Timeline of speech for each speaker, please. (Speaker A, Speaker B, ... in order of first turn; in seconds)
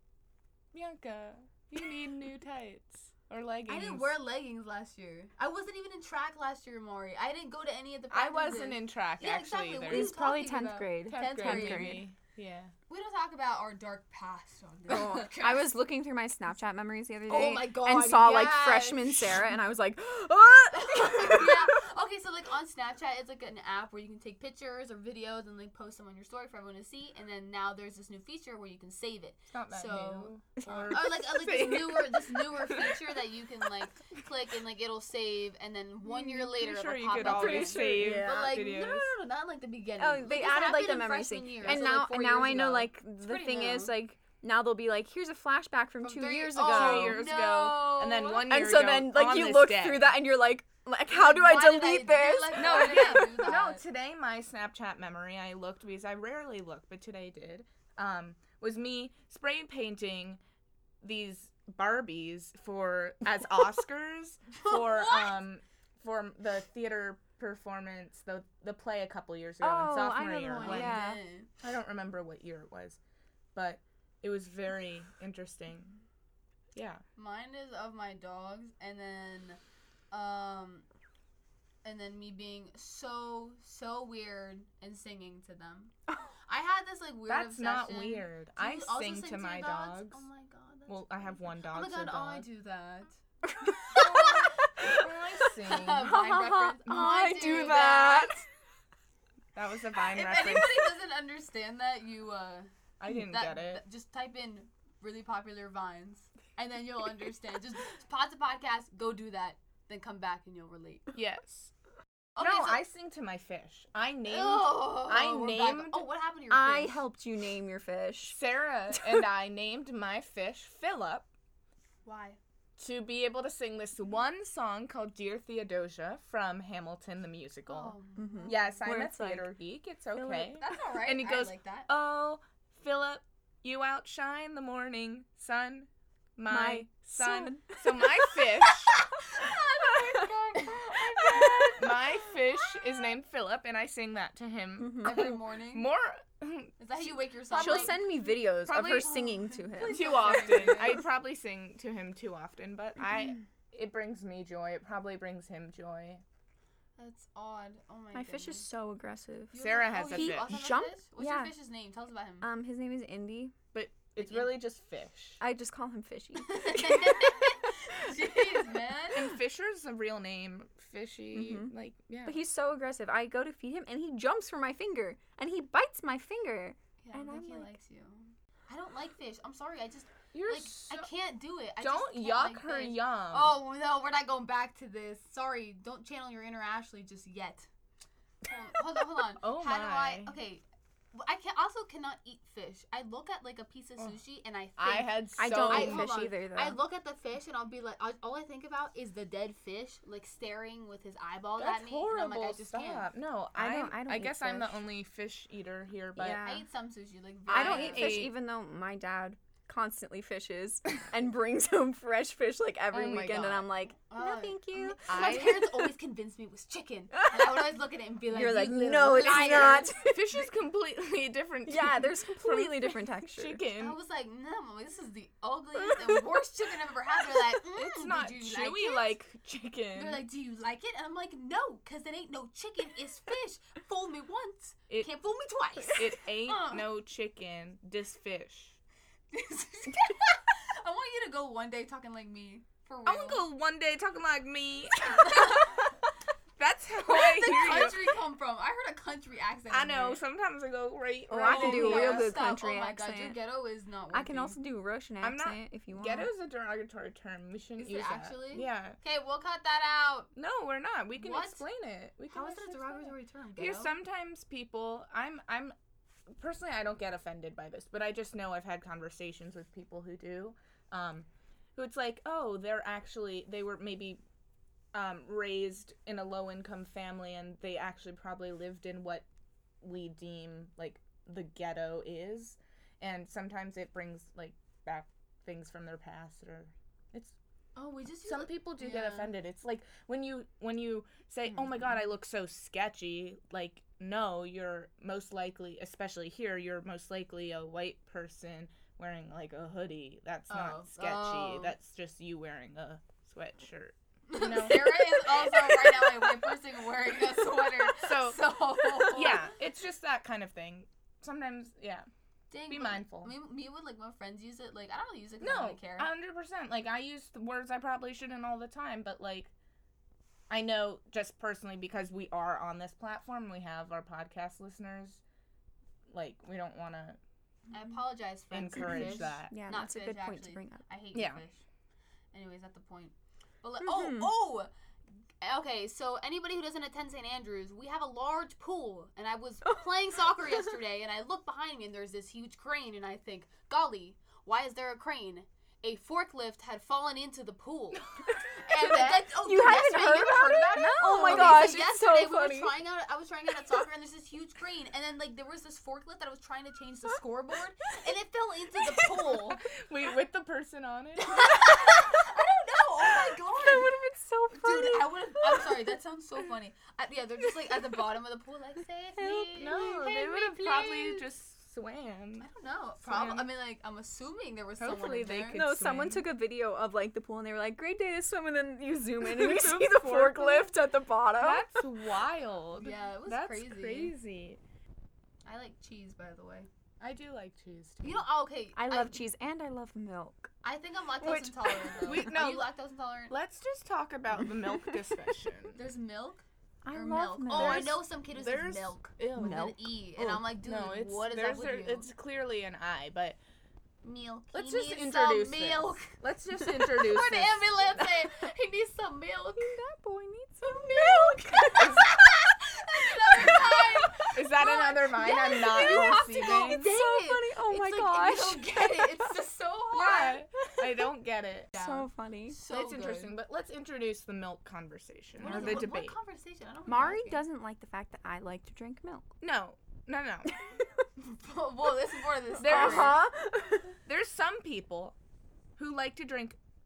Speaker A: 0.7-4.1, 8.1-10.1, 11.0-12.7, 29.5-33.2, 36.0-39.1, 46.6-50.2, 52.5-60.4, 61.0-71.0, 71.6-73.0, 73.5-76.0, 76.7-77.0, 87.3-90.2, 90.9-92.5, 93.9-96.2, 99.5-100.9, 103.0-103.8, 111.1-111.7, 112.4-116.1, 118.3-121.3, 122.8-138.9, 141.2-148.1, 148.6-156.2, 159.6-160.5, 163.7-165.4, 169.1-172.4, 180.3-181.1, 181.8-183.6, 189.4-190.3, 194.8-196.1, 201.6-206.4, 207.5-208.3, 212.9-213.6, 215.1-215.8, 219.1-224.0, 227.7-230.2, 235.8-238.8, 243.1-245.8, 246.6-248.1, 249.7-252.5, 255.2-259.0, 260.3-265.7, 266.3-274.2, 274.9-279.2, 279.8-287.4, 288.2-306.1, 307.9-308.4, 309.1-312.1, 312.7-313.3, 315.4-319.5, 320.5-325.2, 326.1-327.2, 328.5-329.5, 331.1-331.4, 347.9-349.3, 350.7-351.8, 359.3-361.9, 369.2-372.4, 373.0-373.5, 374.8-376.2, 379.2-380.7, 381.4-384.6, 387.0-388.2, 392.0-392.7, 393.3-395.8, 397.5-403.4, 404.5-407.6, 411.8-412.0, 414.3-416.9, 419.9-421.8, 422.7-426.1, 429.4-430.8, 432.6-433.2, 434.0-435.1, 435.8-436.6
Speaker B: 3.7-12.0, 12.9-15.7, 17.3-19.4, 20.7-43.9, 46.0-48.4, 51.1-53.8, 64.5-65.4, 70.5-71.5, 77.2-79.6, 80.1-80.9, 81.8-85.9, 86.5-93.2, 93.8-94.5, 95.6-98.4, 100.0-111.1, 112.3-112.8, 114.2-117.0, 122.0-122.4, 127.7-128.6, 130.5-131.9, 139.0-142.0, 145.0-145.9, 146.8-148.0, 149.0-151.0, 157.0-158.7, 159.5-162.5, 164.2-164.5, 166.4-169.3, 177.0-187.7, 188.4-203.1, 206.4-208.2, 214.0-219.9, 223.8-229.1, 229.9-236.8, 239.3-243.4, 245.0-245.9, 247.0-250.2, 251.4-254.6, 257.8-260.3, 261.1-261.6, 262.3-263.9, 287.8-289.3, 300.5-301.7, 304.3-309.5, 312.5-316.1, 327.7-331.6, 332.3-334.7, 335.4-359.6, 361.2-363.9, 364.5-371.2, 372.4-375.6, 382.7-384.1, 385.4-386.7, 388.0-389.2, 390.6-393.3, 395.7-402.1, 404.0-406.1, 407.0-409.8, 410.6-420.4, 421.7-423.3, 425.4-427.4, 431.2-433.2
Speaker C: 9.9-12.0, 14.9-21.7, 30.6-31.1, 37.1-38.6, 40.0-47.2, 48.3-53.3, 69.6-71.2, 93.5-95.1, 95.8-98.4, 116.5-118.4, 118.9-119.2, 128.2-129.5, 130.2-130.5, 136.5-138.1, 140.9-142.1, 144.8-145.3, 147.5-150.9, 158.1-161.5, 162.4-163.5, 165.4-168.1, 171.3-171.7, 172.2-177.7, 195.4-196.8, 203.5-204.8, 206.2-206.6, 207.5-215.6, 217.1-217.6, 218.3-220.4, 221.7-223.6, 225.8-226.2, 251.3-253.4, 254.1-256.3, 328.9-330.8, 333.8-334.3, 348.8-352.7, 363.6-365.9, 375.5-381.8, 388.8-390.5, 391.2-392.3, 394.4-395.3, 396.8-397.9, 399.3-400.3, 409.6-412.1, 413.3-414.3, 415.5-419.3, 421.7-422.6, 425.4-425.9, 426.9-429.3, 430.5-430.8, 432.6-433.9